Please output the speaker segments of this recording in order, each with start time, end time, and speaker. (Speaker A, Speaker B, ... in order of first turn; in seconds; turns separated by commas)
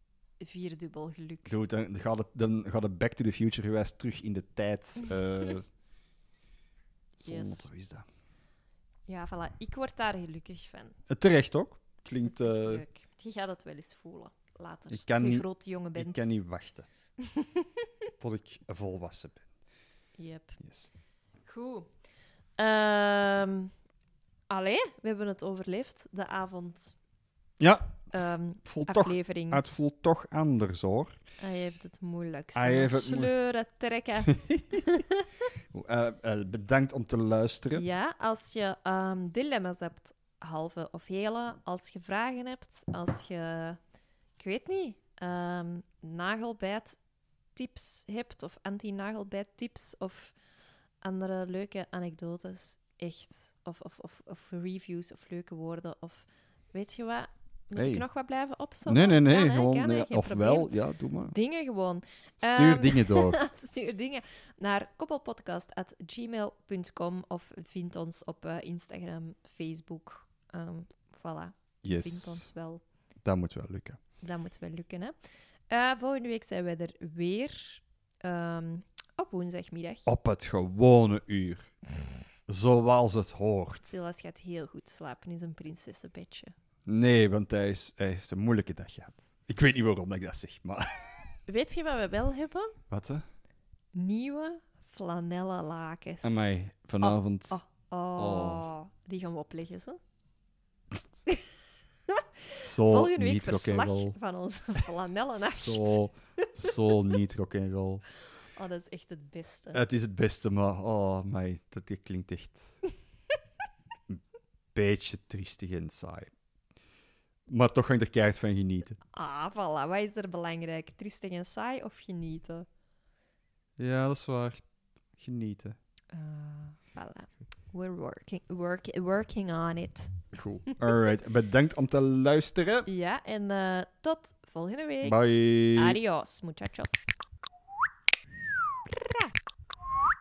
Speaker A: 0.4-1.5, Speaker B: 1.5-5.7, Speaker B: 7.2-8.1, Speaker A: 7.2-7.7, Speaker A: 9.1-11.0, Speaker B: 11.1-12.8, Speaker A: 12.2-16.3, Speaker B: 14.9-16.9, Speaker A: 17.2-17.7, Speaker B: 18.2-19.4, Speaker A: 20.2-20.6, Speaker B: 20.6-20.9, Speaker A: 21.4-21.9, Speaker A: 22.6-23.7, Speaker A: 24.5-26.9, Speaker B: 27.6-28.1, Speaker A: 28.1-29.6, Speaker B: 28.6-31.2, Speaker A: 31.4-35.3, Speaker B: 32.5-33.3, Speaker B: 34.3-34.8, Speaker B: 35.7-37.8, Speaker A: 37.7-43.8, Speaker A: 44.4-47.0, Speaker A: 47.5-50.3, Speaker A: 51.0-72.8, Speaker B: 57.8-58.0, Speaker B: 58.9-61.3, Speaker B: 62.4-63.4, Speaker B: 71.8-72.5, Speaker B: 73.2-74.0, Speaker A: 74.2-75.1, Speaker A: 75.7-80.1, Speaker B: 80.0-81.7, Speaker B: 82.5-84.0, Speaker A: 83.9-86.5, Speaker B: 86.8-91.3, Speaker A: 91.5-92.7, Speaker B: 92.9-93.2, Speaker A: 93.9-96.4, Speaker B: 96.2-97.6, Speaker A: 97.0-100.0, Speaker B: 98.2-98.7, Speaker B: 102.5-104.1, Speaker A: 102.8-106.5, Speaker B: 105.3-108.0, Speaker A: 108.5-109.8, Speaker B: 109.7-112.7, Speaker B: 114.7-116.3, Speaker B: 117.5-119.0, Speaker A: 119.1-122.7, Speaker B: 123.8-124.6, Speaker B: 125.2-125.8, Speaker A: 126.1-130.3, Speaker B: 130.3-132.9, Speaker A: 132.8-137.1, Speaker B: 135.0-136.0